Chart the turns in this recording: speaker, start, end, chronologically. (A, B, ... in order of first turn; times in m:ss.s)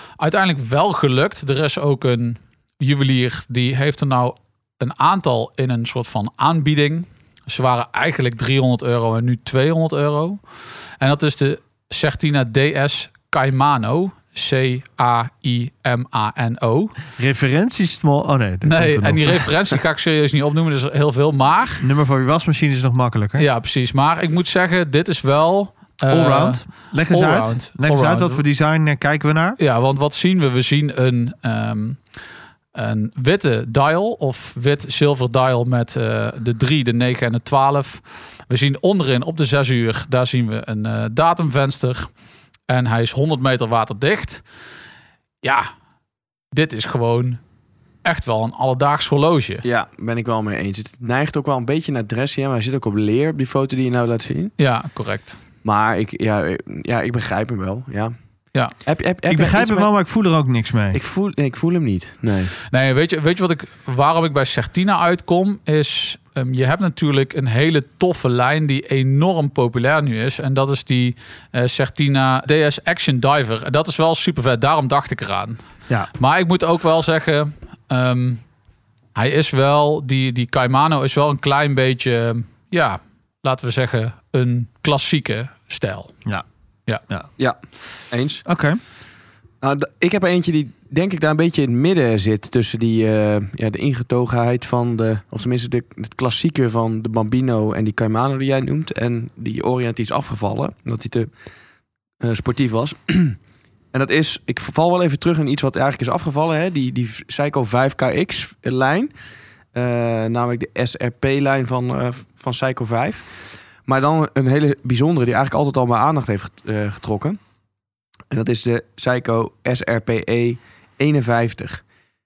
0:00.2-0:10.4 A
0:11.0-0:16.9 A
0:17.2-0:19.5 B
0:18.6-0:21.8 A
0:21.8-0:23.4 B
0:23.4-0:28.4 A
0:26.1-0:29.6 B
0:29.6-0:32.0 A
0:32.7-0:42.1 A
0:42.7-0:44.4 A
0:45.4-0:45.7 A
0:46.5-0:47.4 A
0:48.0-0:49.6 A
0:49.6-0:54.5 C
0:54.6-0:55.4 A
0:55.6-0:58.1 C
0:58.8-0:59.9 C
0:59.3-1:01.0 B
1:00.9-1:02.5 C
1:02.7-1:15.6 A
1:16.1-1:18.4 A
1:19.1-1:26.1 A
1:28.1-1:28.4 C
1:28.4-1:28.8 B
1:29.6-1:41.3 C
1:42.2-1:43.4 C
1:43.9-1:49.1 C
1:49.7-1:53.3 C
1:53.8-1:57.4 C
1:58.3-2:01.8 C